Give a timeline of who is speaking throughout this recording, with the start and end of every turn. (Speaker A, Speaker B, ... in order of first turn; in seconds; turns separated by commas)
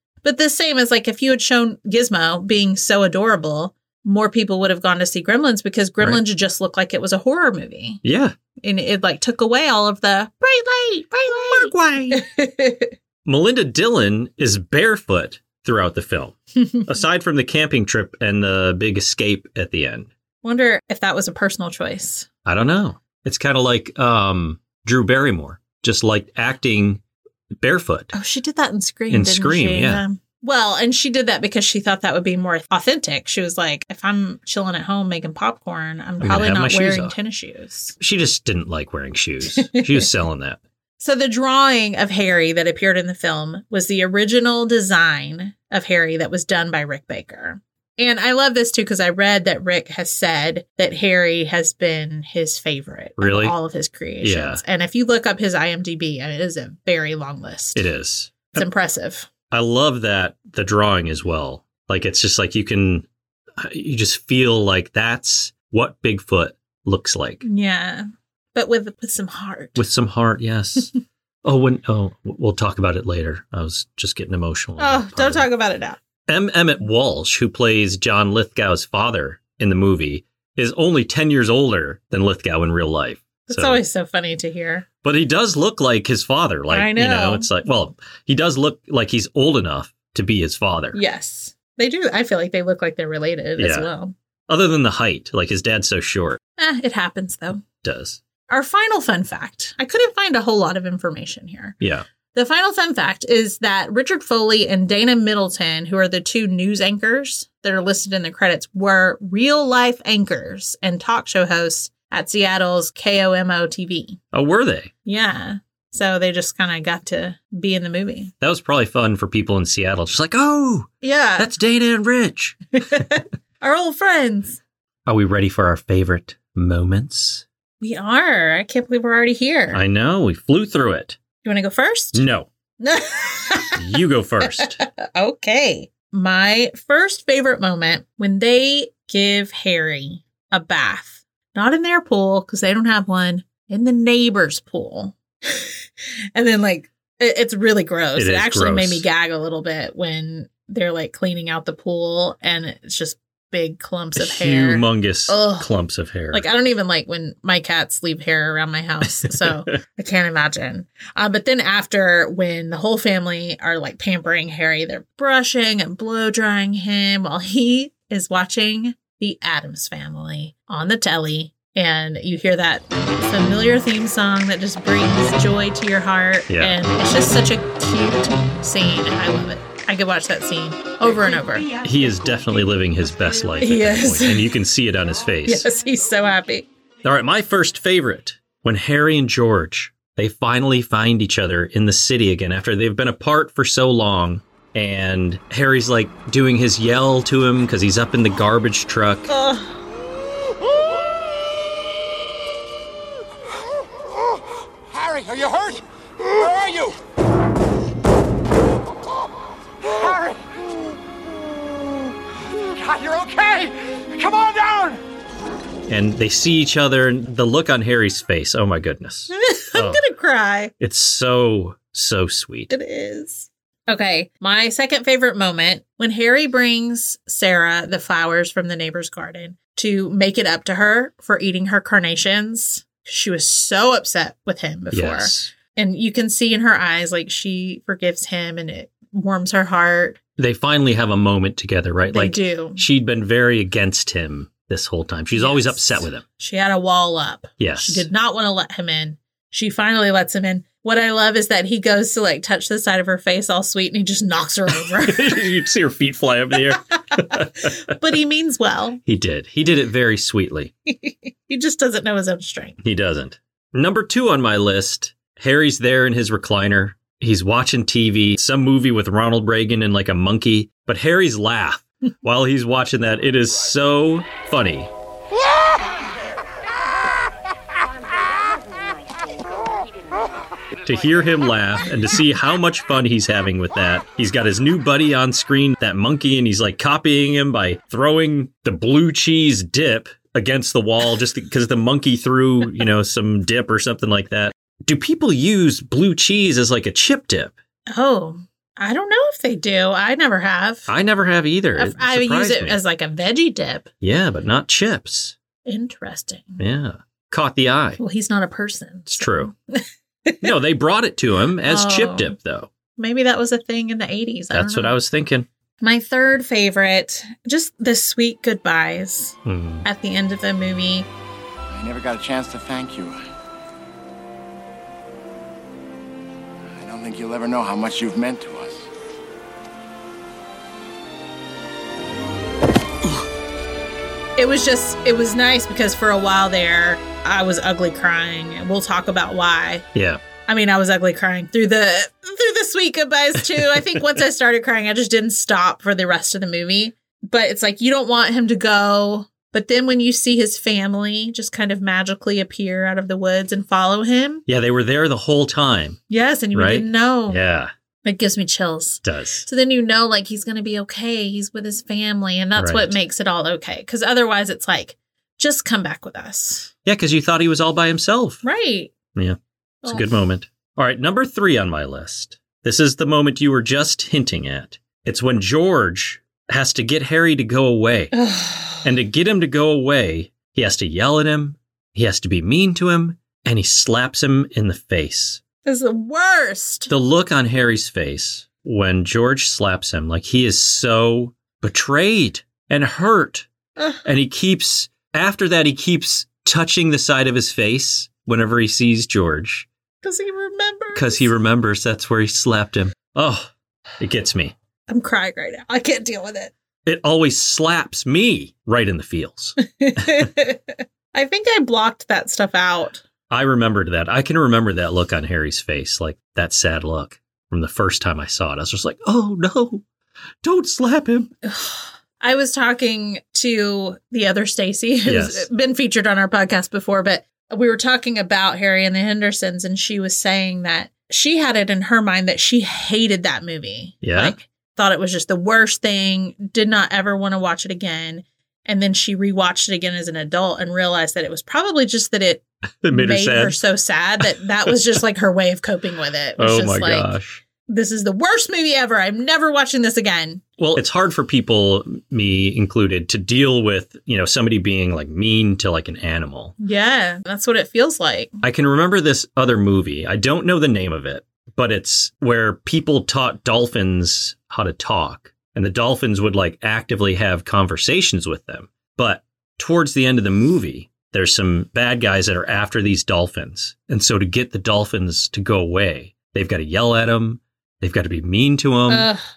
Speaker A: 0.2-8.0, Speaker B: 8.0-8.3, Speaker A: 8.6-12.9, Speaker B: 13.2-20.1, Speaker A: 20.4-22.3, Speaker B: 22.4-27.0, Speaker B: 27.6-28.1, Speaker A: 28.1-38.0, Speaker B: 29.1-30.0, Speaker B: 36.2-37.1, Speaker B: 38.0-40.6, Speaker A: 39.5-40.1, Speaker A: 41.0-57.9, Speaker B: 53.2-53.6, Speaker B: 54.2-54.6, Speaker B: 57.8-58.6, Speaker A: 58.5-59.3, Speaker B: 59.5-63.1, Speaker B: 63.6-67.4, Speaker A: 67.4-69.8, Speaker B: 69.8-70.9, Speaker B: 71.4-75.5, Speaker A: 74.8-76.0, Speaker B: 76.3-83.8, Speaker A: 83.5-84.9, Speaker B: 85.0-91.0, Speaker A: 86.7-87.5, Speaker A: 90.9-94.1, Speaker B: 93.6-93.9, Speaker B: 94.5-96.4, Speaker A: 96.6-97.6, Speaker B: 97.8-98.2, Speaker A: 98.5-101.8, Speaker A: 102.3-114.2, Speaker B: 114.3-114.9, Speaker A: 115.1-118.3, Speaker B: 118.4-123.0, Speaker A: 121.0-121.5, Speaker A: 122.8-124.6, Speaker B: 125.1-127.5, Speaker A: 127.8-129.8, Speaker B: 129.7-131.2, Speaker A: 131.4-132.2, Speaker B: 132.1-132.5, Speaker A: 132.8-145.7, Speaker B: 133.8-134.8, Speaker A: 146.3-155.7, Speaker B: 148.2-149.1, Speaker B: 154.2-156.4, Speaker A: 156.3-181.7, Speaker B: 159.2-159.5, Speaker B: 176.5-176.8, Speaker B: 181.8-185.7, Speaker A: 183.6-184.6, Speaker A: 185.4-186.7, Speaker B: 187.0-199.3, Speaker A: 199.3-199.7, Speaker C: 205.1-205.8, Speaker C: 212.9-214.8, Speaker B: 215.9-220.0, Speaker A: 219.3-220.7, Speaker B: 220.8-222.7, Speaker A: 222.7-240.2, Speaker B: 234.9-235.5, Speaker B: 240.4-246.2, Speaker A: 242.1-242.8, Speaker A: 245.4-255.4, Speaker B: 247.6-248.1, Speaker B: 254.8-257.8, Speaker A: 257.1-259.0, Speaker B: 259.1-260.7, Speaker A: 260.9-262.8, Speaker B: 262.8-274.9, Speaker B: 280.8-297.5, Speaker A: 297.9-300.9, Speaker B: 300.9-302.8, Speaker A: 301.8-303.9, Speaker B: 304.0-305.4, Speaker A: 305.6-306.6, Speaker B: 306.6-308.0, Speaker A: 308.0-310.5, Speaker B: 309.1-309.5, Speaker B: 310.4-312.7, Speaker A: 311.6-312.4, Speaker A: 313.0-315.0, Speaker B: 314.5-315.5, Speaker A: 315.8-321.1, Speaker B: 319.4-319.9, Speaker C: 321.7-323.2, Speaker C: 326.7-328.9, Speaker A: 334.4-339.9, Speaker B: 339.9-340.2, Speaker A: 340.5-354.4, Speaker B: 343.6-344.0, Speaker B: 354.5-356.0, Speaker A: 356.1-357.4, Speaker B: 356.5-357.7, Speaker A: 358.0-366.7, Speaker B: 359.0-359.5, Speaker B: 362.6-363.0, Speaker B: 366.9-368.4, Speaker A: 368.4-368.9, Speaker B: 369.1-378.1, Speaker A: 369.8-370.1, Speaker A: 378.1-378.9, Speaker B: 378.8-385.4, Speaker A: 385.6-386.9, Speaker B: 386.9-393.5, Speaker A: 393.8-394.0, Speaker B: 394.0-399.7, Speaker A: 400.0-401.3, Speaker B: 400.9-404.5, Speaker A: 404.9-406.5, Speaker B: 406.9-410.3, Speaker A: 409.6-413.0, Speaker B: 413.3-419.9, Speaker B: 420.4-421.3, Speaker A: 421.4-447.1, Speaker B: 425.1-425.5, Speaker B: 434.0-434.4, Speaker B: 442.8-443.6, Speaker B: 446.4-447.4, Speaker A: 447.6-450.4, Speaker B: 450.6-456.5, Speaker A: 456.6-458.4, Speaker B: 458.4-479.1, Speaker A: 478.9-479.2